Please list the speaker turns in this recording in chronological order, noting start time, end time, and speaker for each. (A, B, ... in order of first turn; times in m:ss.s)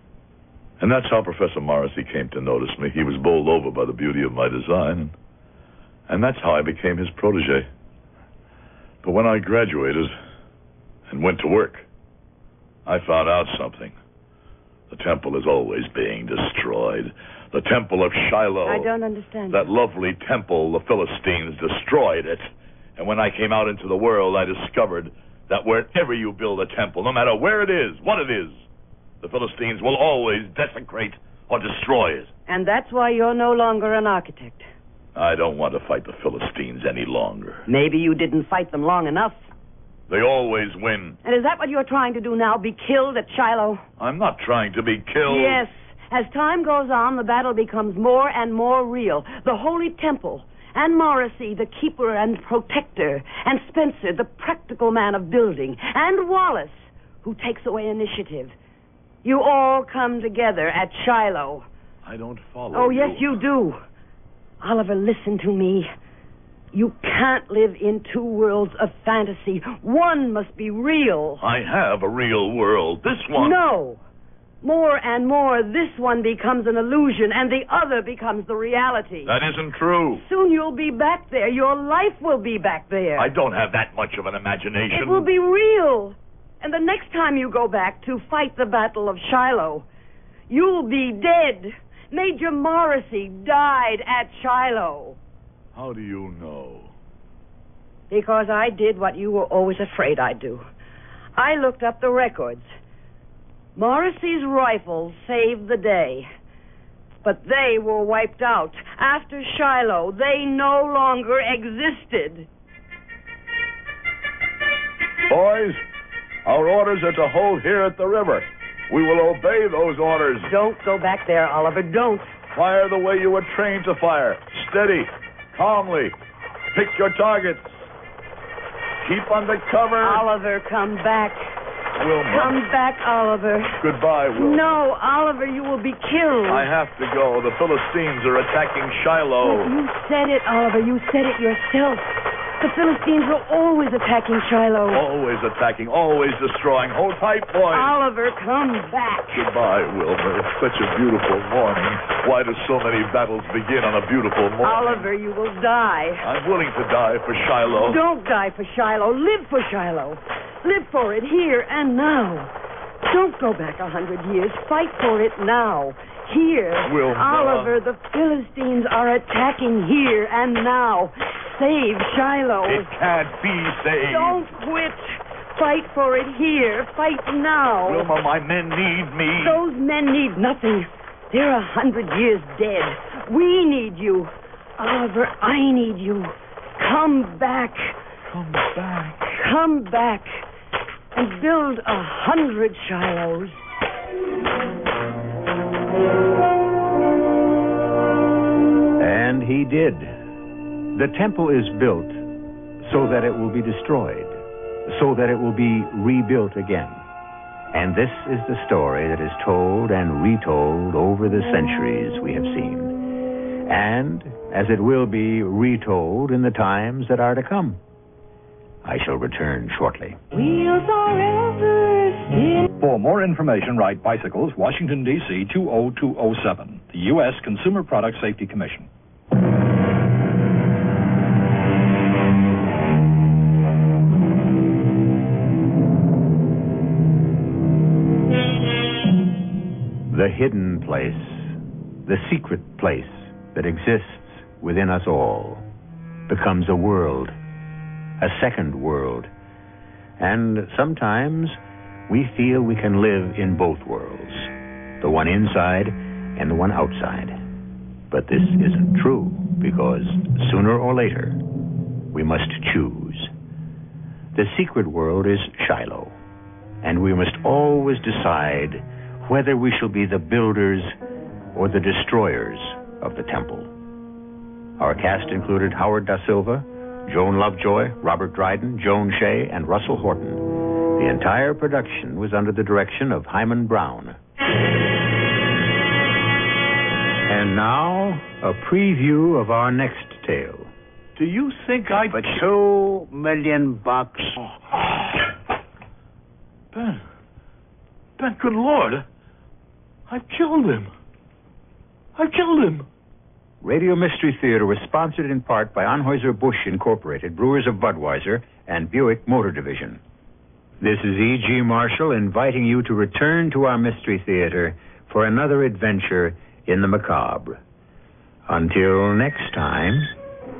0:00.8-0:05.1 A
0:06.1-0:07.7 A
0:09.0-0:10.1 A
0:11.1-0:11.8 A
0:12.8-0:14.0 A
0:14.9-0:18.9 A
0:18.6-0:19.7 B
0:19.5-0:28.6 A
0:29.2-0:32.3 A
0:32.5-0:34.7 B
0:35.2-0:37.6 A
0:37.7-0:39.5 B
0:40.1-0:41.2 A
0:41.2-0:43.8 B
0:44.0-0:45.6 A
0:45.2-0:58.5 B
0:59.2-1:01.7 B
1:02.0-1:03.4 A
1:02.7-1:03.8 B
1:04.6-1:05.9 B
1:06.7-1:11.4 B
1:11.4-1:13.6 A
1:13.3-1:14.0 B
1:14.6-1:19.3 B
1:19.2-1:20.2 A
1:20.1-1:23.3 B
1:23.2-1:25.2 A
1:24.9-1:29.9 B
1:30.5-1:35.2 B
1:35.7-1:36.9 A
1:38.1-1:40.6 B
1:41.4-1:42.7 B
1:43.8-1:46.3 B
1:47.2-1:52.5 B
1:55.3-1:55.8 A
1:56.4-2:00.5 A
2:00.4-2:02.3 B
2:02.5-2:06.1 A
2:06.7-2:07.9 A
2:09.0-2:10.2 A
2:10.0-2:11.4 B
2:12.0-2:12.5 A
2:12.3-2:13.8 B
2:13.8-2:14.6 A
2:14.3-2:16.7 B
2:16.5-2:19.7 A
2:19.4-2:25.0 B
2:24.9-2:27.9 A
2:27.7-2:29.4 B
2:29.3-2:35.1 A
2:34.6-2:36.2 B
2:36.2-2:38.0 A
2:37.8-2:42.5 B
2:43.0-2:52.9 B
2:46.8-2:47.7 A
2:52.6-2:54.4 A
2:54.1-2:58.1 B
2:57.8-2:59.6 A
2:59.4-3:08.0 B
3:08.3-3:09.4 A
3:09.4-3:10.4 B
3:11.1-3:13.6 B
3:19.0-3:20.1 C
3:20.9-3:22.2 C
3:22.8-3:27.0 C
3:27.7-3:33.0 C
3:33.7-3:37.8 C
3:38.8-3:40.2 C
3:40.3-3:42.7 B
3:42.8-3:48.9 D
4:00.1-4:05.6 C
4:06.3-4:07.3 C
4:08.2-4:09.3 C
4:10.2-4:17.4 C
4:18.1-4:21.4 C
4:22.1-4:23.3 C
4:24.3-4:26.1 C
4:26.8-4:30.9 C
4:31.5-4:33.7 C
4:34.8-4:44.2 C
4:47.3-4:50.7 C
4:51.2-4:52.4 A
4:52.2-4:54.3 E
4:56.7-4:57.0 A
4:58.2-4:59.0 A
5:00.1-5:00.9 A
5:02.2-5:02.8 A
5:03.6-5:10.0 C
5:10.8-5:17.6 C
5:18.5-5:20.1 C